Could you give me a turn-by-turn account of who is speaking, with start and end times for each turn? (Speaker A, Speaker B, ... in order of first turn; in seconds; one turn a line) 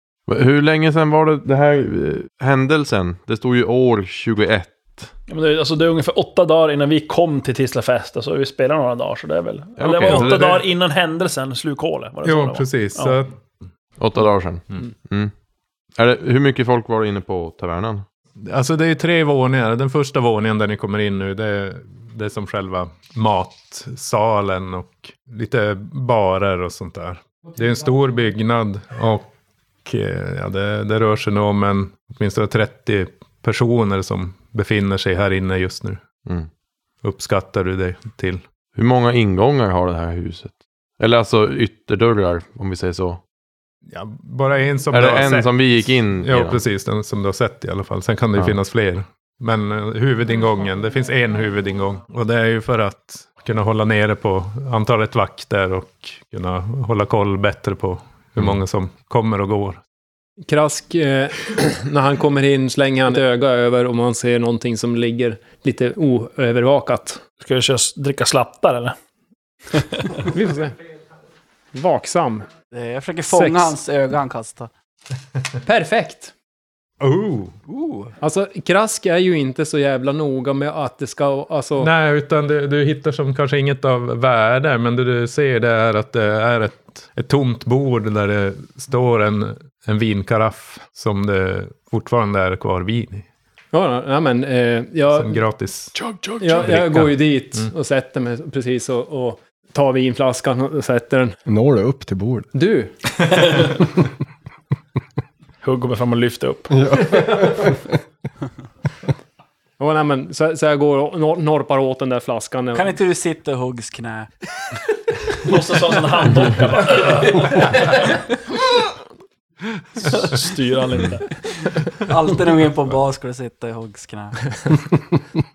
Speaker A: 0.3-5.1
Speaker B: 5.3-13.2
Speaker A: 9.8-10.6
Speaker C: 10.0-10.4
Speaker C: 12.2-13.5
Speaker A: 14.0-15.3
Speaker A: 15.9-18.0
Speaker C: 18.4-29.3
Speaker C: 29.8-36.0
Speaker C: 37.0-38.4
Speaker A: 38.8-43.2
Speaker C: 43.9-59.8
Speaker A: 44.9-46.6
Speaker D: 60.5-67.2
Speaker B: 67.4-68.9
Speaker D: 70.3-70.8
Speaker D: 71.7-72.5
Speaker E: 72.7-74.7
Speaker D: 73.3-73.8
Speaker D: 75.6-76.3
Speaker C: 77.0-78.1
Speaker D: 78.2-81.9
Speaker C: 81.8-93.2
Speaker D: 93.7-95.5
Speaker C: 95.1-95.9
Speaker B: 96.0-96.8
Speaker D: 96.4-101.4
Speaker C: 96.5-97.7
Speaker F: 101.5-102.5
Speaker D: 102.5-103.0
Speaker B: 105.6-106.8
Speaker F: 106.7-107.9
Speaker D: 109.8-113.0
Speaker E: 112.7-114.3
Speaker B: 115.4-118.0
Speaker C: 119.8-120.3
Speaker B: 120.0-121.4
Speaker E: 122.0-124.8